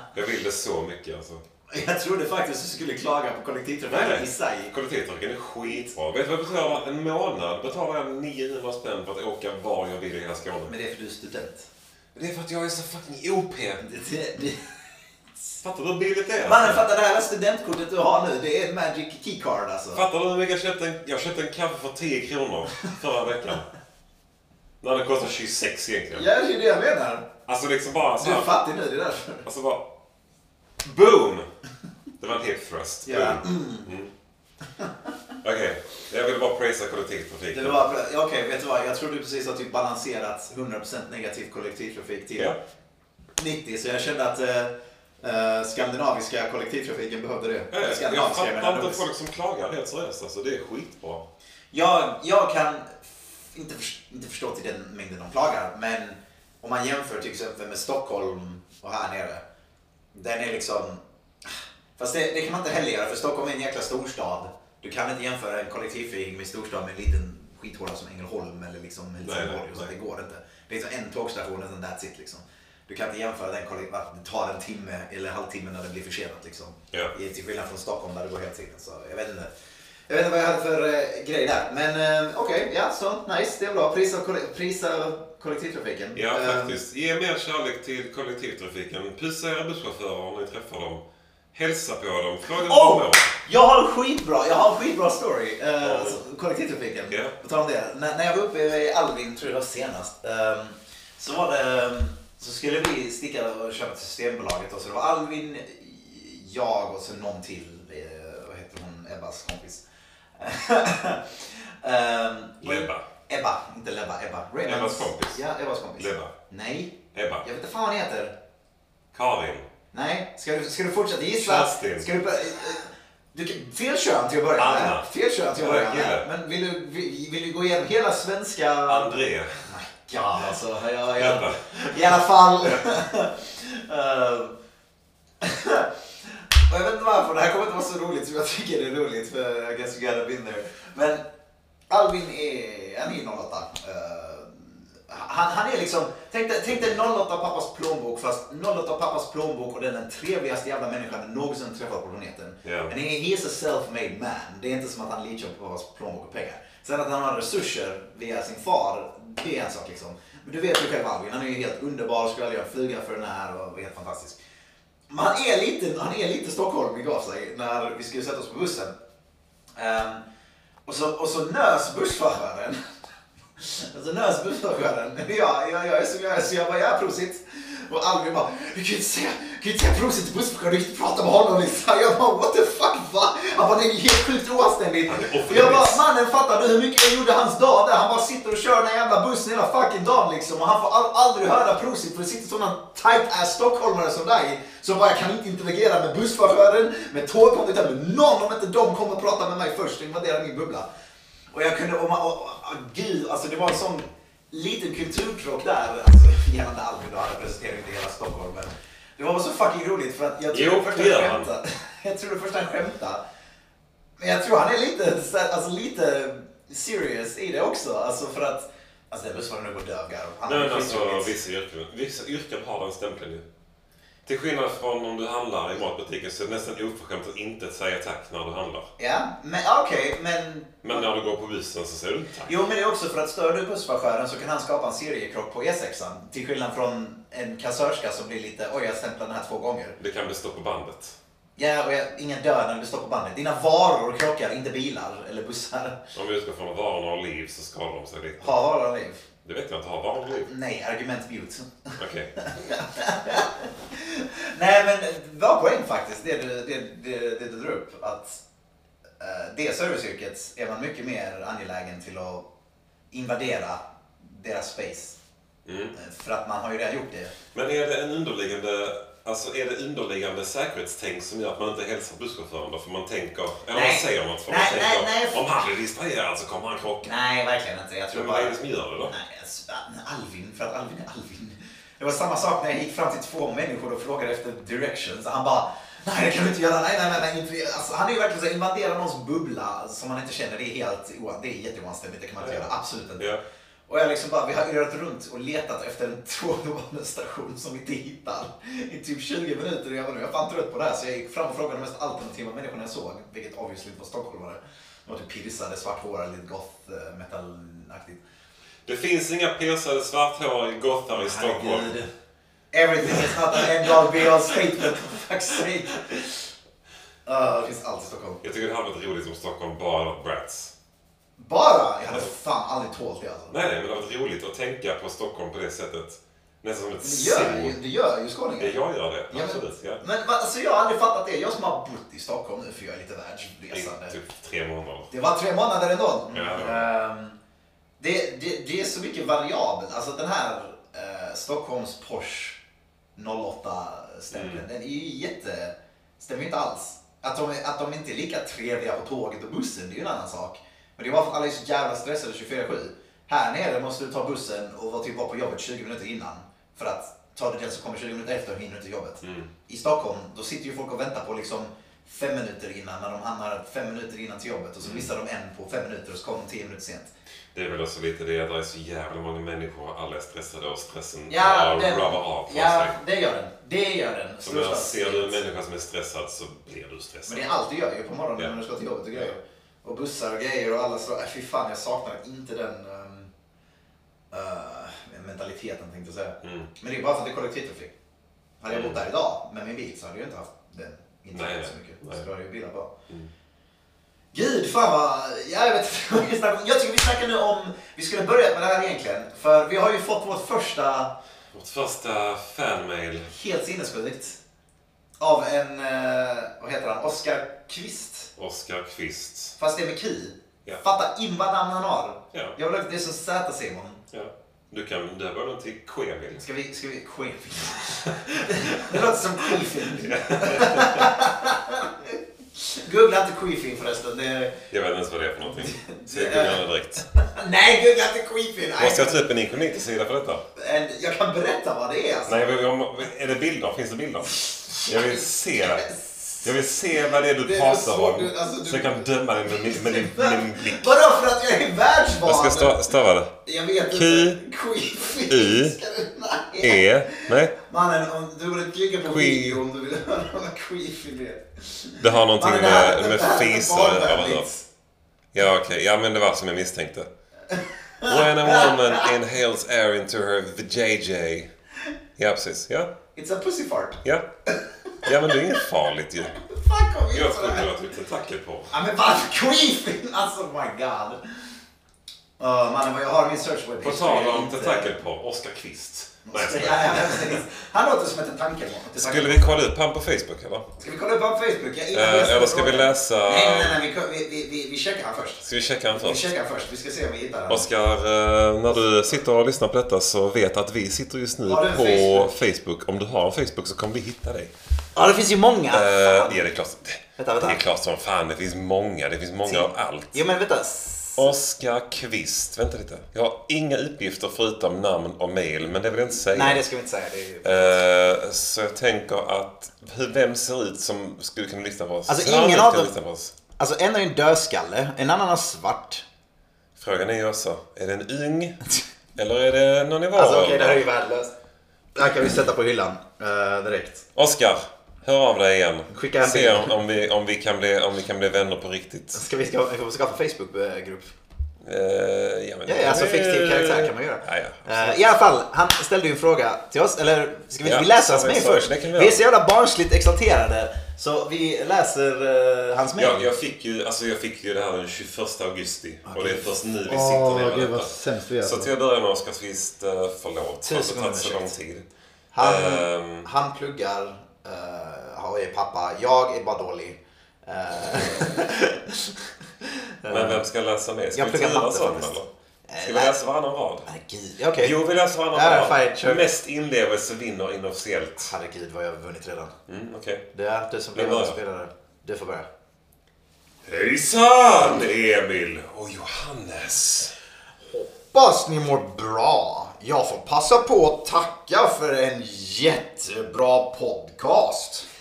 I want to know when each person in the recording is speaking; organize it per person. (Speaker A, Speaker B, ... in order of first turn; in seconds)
Speaker A: 0.1-1.4, 3.9-10.7, 12.2-13.8, 15.6-16.8, 19.9-23.7, 24.8-26.2, 27.4-28.5, 29.4-29.9, 30.8-31.5, 32.2-34.1, 35.4-37.8, 47.7-51.3, 69.2-69.9, 86.1-91.0, 91.5-93.4, 95.8-96.2, 97.1-97.3, 112.6-113.0, 114.6-115.4, 116.0-116.3, 117.1-117.4, 119.1-119.7, 121.4-122.1, 124.6-126.3, 128.9-129.5, 131.2-131.6, 132.6-132.9, 152.6-152.9, 185.1-186.0, 210.5-211.5, 220.4-223.4, 224.2-228.9, 230.8-232.5, 240.0-241.2, 246.1-248.6, 249.4-250.5, 252.0-252.3, 265.6-265.9, 267.5-277.1, 278.1-279.1, 292.4-293.4, 308.9-312.0, 313.0-314.8, 318.4-320.7, 323.5-327.8, 328.6-330.0, 333.7-335.1, 336.3-336.9, 344.3-344.6, 359.2-359.5, 364.8-365.1, 367.5-373.0, 374.4-377.4, 386.4-386.7, 388.7-389.0, 391.3-392.3, 401.5-403.3, 408.4-409.6, 414.1-416.4, 418.7-421.1, 424.7-427.1, 428.8-430.4, 432.3-435.9, 436.4-440.9, 442.2-443.3, 443.9-444.4, 445.3-445.8, 446.6-447.5, 449.0-449.6, 452.0-454.5, 455.3-457.1, 458.1-461.5, 462.2-462.9, 465.0-466.4, 467.1-468.7, 473.8-477.4, 479.0-480.7, 481.9-483.8, 485.4-486.3, 487.5-494.5, 495.7-500.2, 501.2-506.6, 507.4-513.4, 516.8-518.6, 519.1-520.9, 524.1-529.2, 531.6-535.0, 537.6-539.2, 543.0-551.9, 552.4-553.3, 560.1-562.3, 562.8-563.9, 564.6-568.3, 569.7-570.2, 570.9-571.4, 573.6-577.1
Speaker B: 1.7-4.7, 10.7-11.7, 13.8-14.8, 16.4-20.0, 26.1-27.3, 28.2-29.4, 33.1-33.9, 37.5-42.5, 43.4-49.0, 51.7-59.4, 60.1-79.5, 80.1-86.8, 92.6-109.8, 110.4-118.3, 119.9-134.6, 135.4-135.9, 136.7-141.2, 141.9-164.4, 165.1-168.9, 169.8-170.2, 170.9-172.8, 173.6-200.9, 201.5-213.2, 214.2-221.3, 229.0-231.1, 232.4-240.0, 241.6-246.0, 248.4-249.2, 250.3-258.4, 259.2-262.4, 263.1-265.2, 265.9-267.4, 273.7-275.4, 277.0-293.3, 293.9-308.2, 311.1-312.1, 312.7-316.4, 317.3-318.4, 321.4-323.5, 327.0-328.8, 329.3-334.2, 335.1-337.4, 338.0-342.6, 343.2-367.1, 371.3-375.4, 377.3-383.3, 384.3-387.9, 388.6-392.9, 394.3-401.1, 403.3-404.4, 405.2-408.3, 409.6-414.0, 416.4-424.6, 425.4-429.3, 430.6-432.5, 434.3-436.5, 437.4-442.9, 443.4-454.7, 457.5-459.1, 463.1-465.6, 466.3-467.7, 468.7-471.2, 472.4-474.9, 476.2-479.7, 480.8-487.7, 488.7-489.2, 491.4-492.3, 494.9-496.4, 497.2-497.6, 499.4-501.3, 506.3-507.8, 512.1-512.9, 513.6-516.0, 520.1-521.3, 521.9-524.0, 525.9-526.8, 529.1-531.1, 532.6-543.3, 546.0-548.7, 550.6-551.6, 552.3-560.4, 561.1-562.2, 562.7-563.2, 563.9-564.8, 565.3-566.3, 568.2-569.5, 570.3-572.5, 577.7-584.9